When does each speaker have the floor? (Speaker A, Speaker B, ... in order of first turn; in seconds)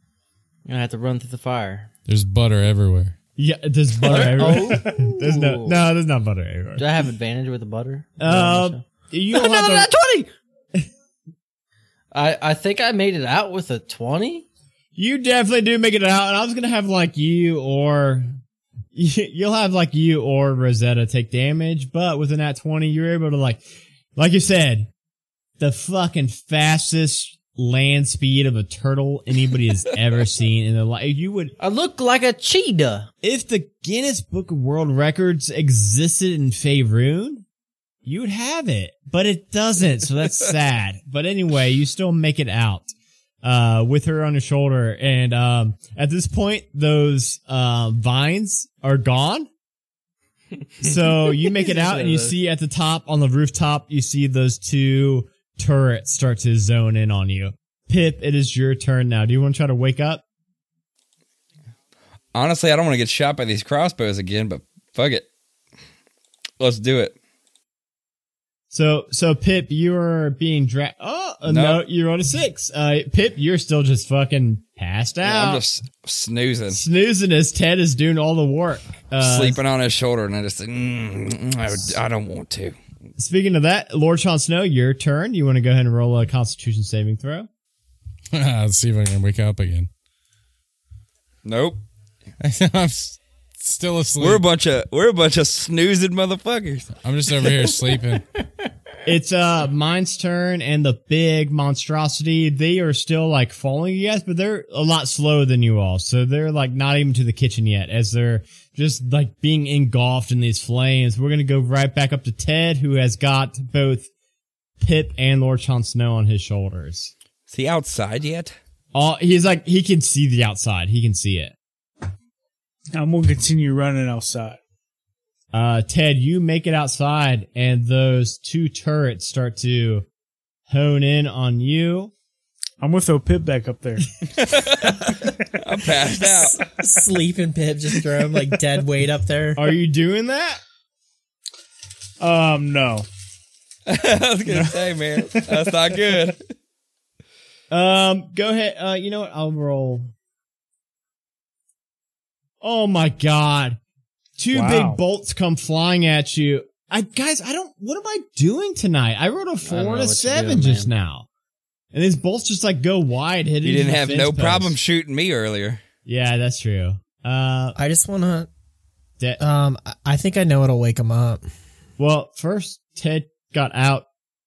Speaker A: 0.7-1.9, 4.0-5.8, 6.8-10.3, 12.1-14.5, 31.6-33.1, 50.8-52.4, 159.6-160.9
Speaker B: 2.1-3.2, 88.3-89.9, 92.4-94.4, 97.0-98.2
Speaker C: 3.4-6.9, 8.2-10.0, 15.0-18.3, 18.9-23.6, 24.2-24.9, 25.6-31.5, 33.2-37.5, 38.0-42.9, 43.4-49.5, 50.8-60.2, 68.7-75.6, 76.7-79.6, 83.2-87.5, 99.0-114.1, 114.8-117.1, 118.9-121.5, 125.5-130.1, 130.7-132.1, 139.6-140.6, 147.7-150.1, 152.6-153.8, 154.4-161.3, 161.9-164.8, 166.1-167.8, 172.0-174.1
Speaker D: 62.4-65.3, 66.6-67.2, 71.5-71.8, 75.2-76.8, 79.2-82.8, 91.5-91.8, 94.2-96.9, 117.5-118.6, 134.3-136.6, 143.9-146.4, 163.6-165.8
Speaker E: 122.9-124.6, 132.8-134.1, 142.2-143.1, 154.5-155.0
Speaker F: 136.2-139.7, 167.8-168.5, 169.4-171.4